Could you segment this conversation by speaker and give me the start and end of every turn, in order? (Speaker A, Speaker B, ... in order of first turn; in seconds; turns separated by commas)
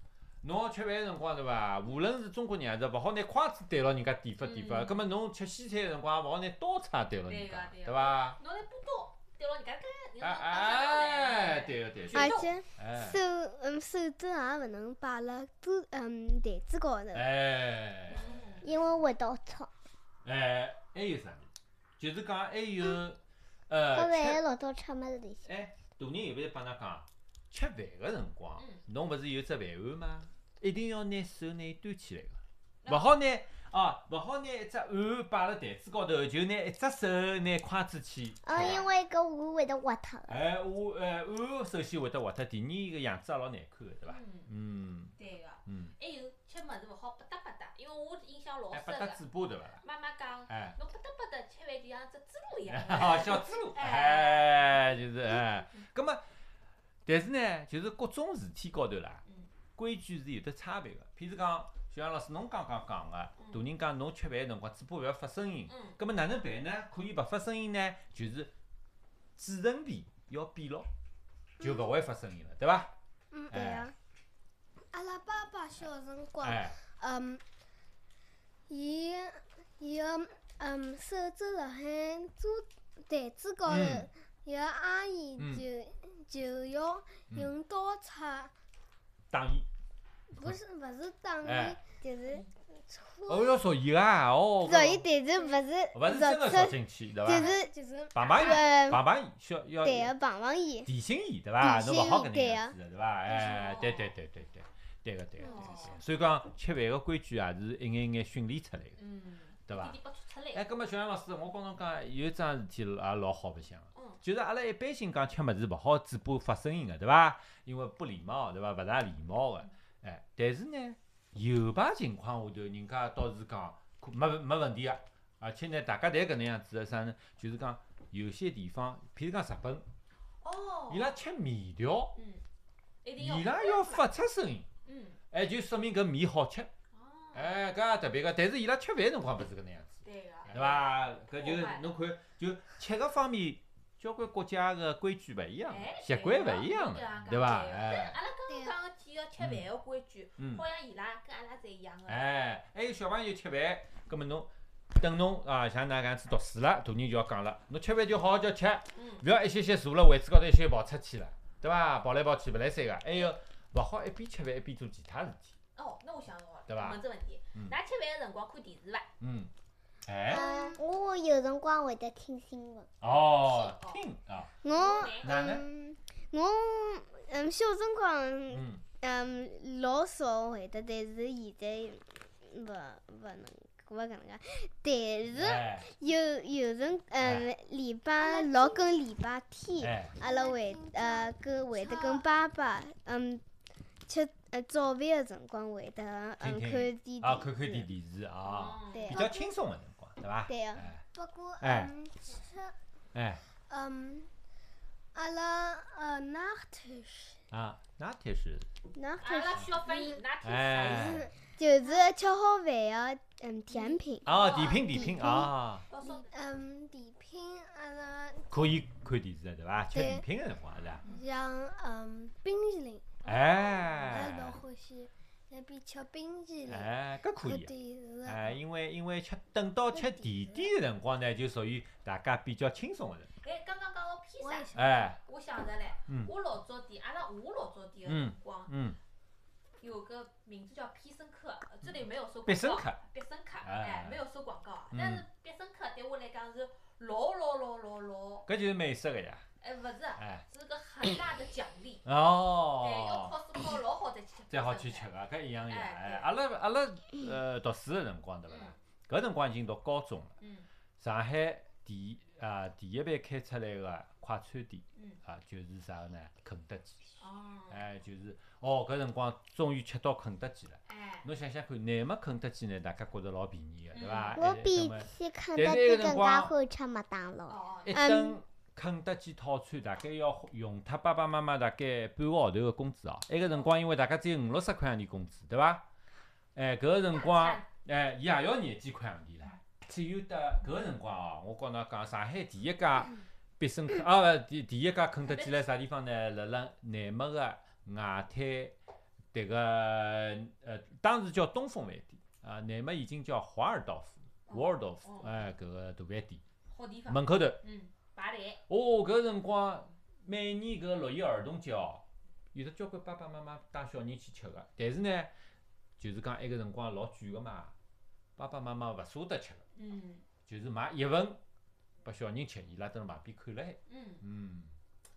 Speaker A: 0.4-8.4, Speaker B: 4.4-5.0, Speaker B: 7.3-12.5, Speaker A: 10.2-13.2, Speaker C: 12.1-17.3, Speaker A: 17.1-18.4, Speaker B: 18.1-18.7, Speaker D: 18.6-19.7, Speaker A: 20.2-21.5, Speaker A: 22.0-24.4, Speaker D: 23.9-25.5, Speaker A: 25.4-38.8, Speaker B: 32.8-33.1, Speaker D: 38.4-40.4, Speaker B: 38.5-38.9, Speaker A: 40.3-45.1, Speaker B: 44.0-44.5, Speaker B: 45.2-49.2, Speaker A: 45.6-45.9, Speaker A: 48.7-49.8, Speaker B: 49.8-54.7, Speaker A: 50.5-50.8, Speaker A: 52.7-56.2, Speaker A: 57.0-59.2, Speaker A: 59.8-68.5, Speaker B: 63.4-63.6, Speaker B: 65.7-66.0, Speaker A: 69.4-70.9, Speaker A: 71.6-72.9, Speaker E: 73.3-73.9, Speaker A: 73.5-73.9, Speaker E: 74.9-77.4, Speaker A: 76.4-76.8, Speaker E: 78.7-88.5, Speaker A: 83.7-84.1, Speaker A: 85.4-85.6, Speaker A: 89.3-89.7, Speaker E: 90.3-93.6, Speaker A: 91.4-91.8, Speaker A: 93.3-95.1, Speaker C: 94.6-97.7, Speaker A: 95.9-97.5, Speaker E: 97.3-98.4, Speaker A: 98.1-100.1, Speaker B: 98.3-98.7, Speaker C: 98.3-99.0, Speaker C: 99.8-100.9, Speaker A: 100.8-109.0, Speaker C: 101.6-102.7, Speaker B: 103.3-104.1, Speaker B: 105.4-106.0, Speaker B: 109.0-110.7, Speaker A: 109.7-110.0, Speaker A: 110.5-129.8, Speaker B: 113.9-114.2, Speaker B: 130.4-131.1, Speaker A: 130.9-132.2, Speaker B: 132.1-132.4, Speaker B: 133.0-134.1, Speaker A: 133.2-134.7, Speaker B: 134.8-135.2, Speaker A: 135.3-136.7, Speaker B: 136.9-137.6, Speaker A: 137.3-148.2, Speaker B: 140.0-141.9, Speaker B: 145.7-152.2, Speaker A: 149.4-149.6, Speaker A: 150.4-150.6, Speaker A: 152.1-165.5, Speaker B: 158.9-159.2, Speaker B: 165.8-169.1, Speaker A: 166.7-167.0, Speaker A: 169.2-169.5, Speaker A: 170.0-170.4, Speaker D: 170.3-172.9, Speaker C: 170.3-170.7, Speaker A: 173.0-174.5, Speaker B: 173.0-174.0, Speaker C: 174.6-193.4, Speaker B: 174.7-175.3, Speaker A: 175.2-175.7, Speaker A: 178.5-178.8, Speaker A: 185.3-185.9, Speaker A: 187.2-187.5, Speaker E: 188.2-188.9, Speaker A: 189.8-190.1, Speaker E: 190.2-192.2, Speaker C: 194.1-197.9, Speaker A: 196.4-201.0, Speaker B: 198.4-199.2, Speaker C: 198.9-199.5, Speaker E: 199.1-199.4, Speaker C: 200.5-200.9, Speaker E: 201.1-202.7, Speaker A: 201.6-201.9, Speaker A: 203.1-203.4, Speaker E: 203.7-204.3, Speaker E: 205.1-207.4, Speaker A: 207.5-208.7, Speaker C: 208.9-209.7, Speaker B: 209.2-211.3, Speaker A: 210.4-211.3, Speaker C: 211.6-215.4, Speaker E: 213.7-214.0, Speaker B: 214.2-215.2, Speaker A: 214.2-215.8, Speaker E: 214.8-215.5, Speaker B: 215.9-216.3, Speaker E: 216.2-218.6, Speaker A: 218.5-221.0, Speaker E: 219.9-220.2, Speaker E: 221.0-223.2, Speaker B: 223.2-224.2, Speaker A: 223.2-224.6, Speaker E: 224.1-228.5, Speaker A: 226.6-227.7, Speaker A: 228.2-233.3, Speaker E: 229.9-230.7, Speaker B: 233.4-234.7, Speaker E: 234.4-235.1, Speaker A: 234.7-235.2, Speaker B: 235.2-238.7, Speaker A: 238.1-239.0, Speaker B: 239.8-248.5, Speaker A: 242.4-243.0, Speaker A: 243.6-244.2, Speaker A: 244.9-245.2, Speaker A: 248.4-249.4, Speaker B: 249.6-252.0, Speaker A: 250.2-250.4, Speaker A: 252.0-253.3, Speaker B: 252.8-255.1, Speaker A: 254.5-260.3, Speaker B: 255.7-256.3, Speaker B: 258.5-258.7, Speaker B: 260.4-260.7, Speaker A: 261.0-267.0, Speaker B: 267.2-267.8, Speaker A: 267.7-276.5, Speaker B: 270.9-271.3, Speaker B: 273.9-274.4, Speaker D: 274.4-277.6, Speaker B: 277.5-278.0, Speaker A: 277.9-285.8, Speaker C: 277.9-278.4, Speaker A: 286.5-298.8, Speaker B: 287.1-287.6, Speaker B: 295.2-295.6, Speaker A: 299.3-306.4, Speaker B: 304.5-305.4, Speaker B: 306.7-308.6, Speaker A: 307.1-307.6, Speaker A: 308.7-312.0, Speaker A: 312.5-315.3, Speaker A: 316.0-317.7, Speaker A: 318.4-319.6, Speaker B: 319.8-320.2, Speaker A: 320.4-321.4, Speaker A: 322.0-324.7, Speaker B: 323.9-324.2